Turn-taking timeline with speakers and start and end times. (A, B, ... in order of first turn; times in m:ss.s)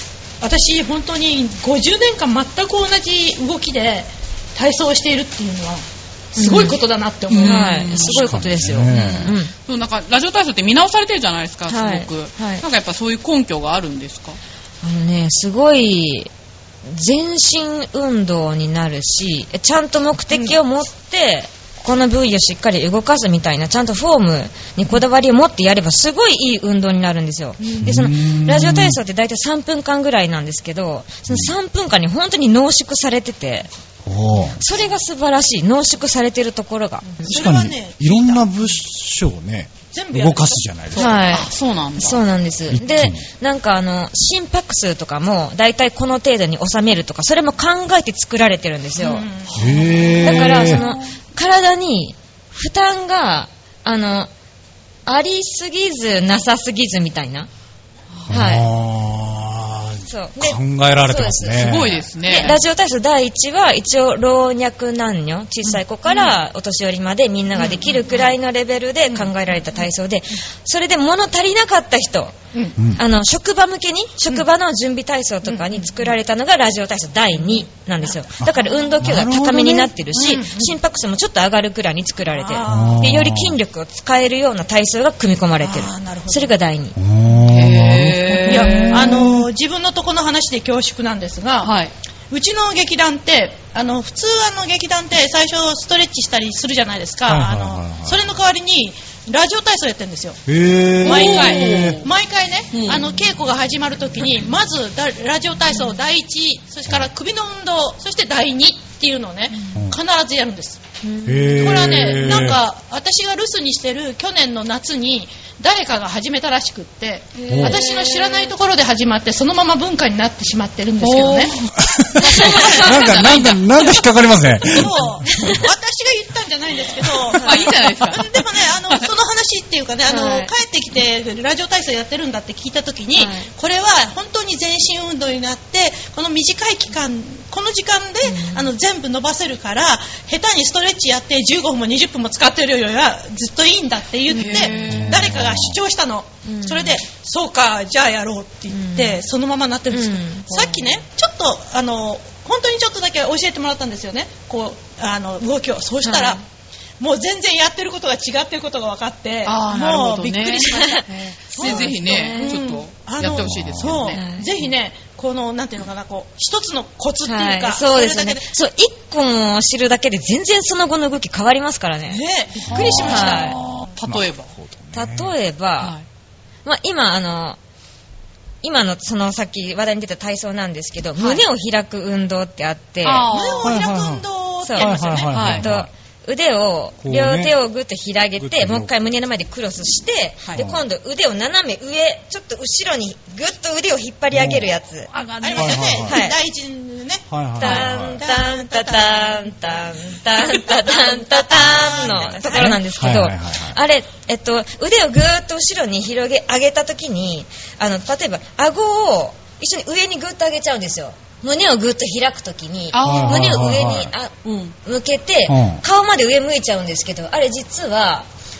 0:00.4-0:07.9 A
0:06.4-0:06.8 B
0:07.3-0:14.4 C
0:07.4-0:09.5 B
0:07.9-0:09.4 D
0:11.7-0:12.6 B
0:14.8-0:16.3 B
0:16.8-0:33.7 B
0:20.3-0:20.6 A
0:27.6-0:27.9 A
0:27.8-0:29.0 D
0:34.0-0:34.6 D
0:34.6-0:37.5 B
0:37.2-0:41.2 D
0:37.2-0:38.4 A
0:39.9-0:41.3 A
0:41.0-0:49.3 B
0:41.1-0:42.2 C
0:42.7-0:43.2 D
0:49.0-0:50.6 A
0:49.5-0:50.8 D
0:49.7-0:51.0 C
0:50.2-0:54.3 B
0:55.1-0:57.5 B
0:58.3-1:02.1 D
0:58.3-0:58.7 B
1:00.1-1:01.7 B
1:01.6-1:02.6 C
1:02.2-1:12.4 B
1:06.1-1:06.3 A
1:07.6-1:08.3 A
1:12.8-1:13.0 D
1:12.9-1:27.0 B
1:15.5-1:15.9 A
1:18.4-1:19.9 D
1:18.4-1:18.9 A
1:20.1-1:20.8 A
1:22.2-1:23.2 A
1:22.7-1:23.6 D
1:25.6-1:26.5 A
1:27.0-1:29.5 D
1:27.4-1:29.4 C
1:28.5-1:31.7 A
1:31.6-1:31.9 C
1:32.3-1:40.4 A
1:37.3-1:38.3 D
1:40.5-1:42.0 D
1:41.0-1:50.8 A
1:41.0-1:42.1 C
1:42.7-1:43.1 C
1:49.7-1:50.0 D
1:51.2-1:52.6 D
1:51.5-2:01.5 A
1:57.5-1:57.8 D
1:57.6-1:58.5 C
2:01.0-2:04.0 C
2:01.8-2:05.3 D
2:02.2-2:03.6 A
2:02.3-2:02.8 B
2:04.6-2:36.4 A
2:05.3-2:05.6 B
2:07.4-2:07.7 B
2:07.4-2:09.1 C
2:10.1-2:10.5 B
2:13.2-2:13.5 B
2:18.2-2:18.7 B
2:24.3-2:25.3 C
2:24.8-2:25.8 D
2:26.5-2:27.0 B
2:28.7-2:29.2 B
2:29.9-2:30.8 B
2:36.0-2:36.4 B
2:37.0-2:48.5 A
2:39.4-2:44.3 C
2:41.6-2:42.6 B
2:43.2-2:44.1 D
2:44.2-2:44.4 B
2:47.3-2:52.2 B
2:52.1-2:53.9 A
2:52.6-2:53.4 D
2:52.8-2:54.5 C
2:52.8-2:53.6 B
2:54.0-2:55.3 D
2:54.9-2:55.9 B
2:56.6-2:57.6 B
2:58.6-3:03.3 B
3:03.0-3:03.8 C
3:03.3-3:05.5 A
3:03.6-3:05.9 D
3:04.6-3:15.1 B
3:05.3-3:05.6 C
3:07.0-3:07.6 D
3:08.4-3:08.9 D
3:10.5-3:10.8 D
3:14.3-3:14.7 D
3:15.1-3:16.1 C
3:15.4-3:22.8 A
3:15.6-3:16.2 D
3:16.0-3:16.4 B
3:17.3-3:18.2 D
3:17.6-3:34.3 B
3:21.5-3:23.8 D
3:32.9-3:33.8 C
3:33.0-3:34.1 D
3:34.4-3:34.8 C
3:34.8-3:38.3 B
3:35.5-3:35.8 D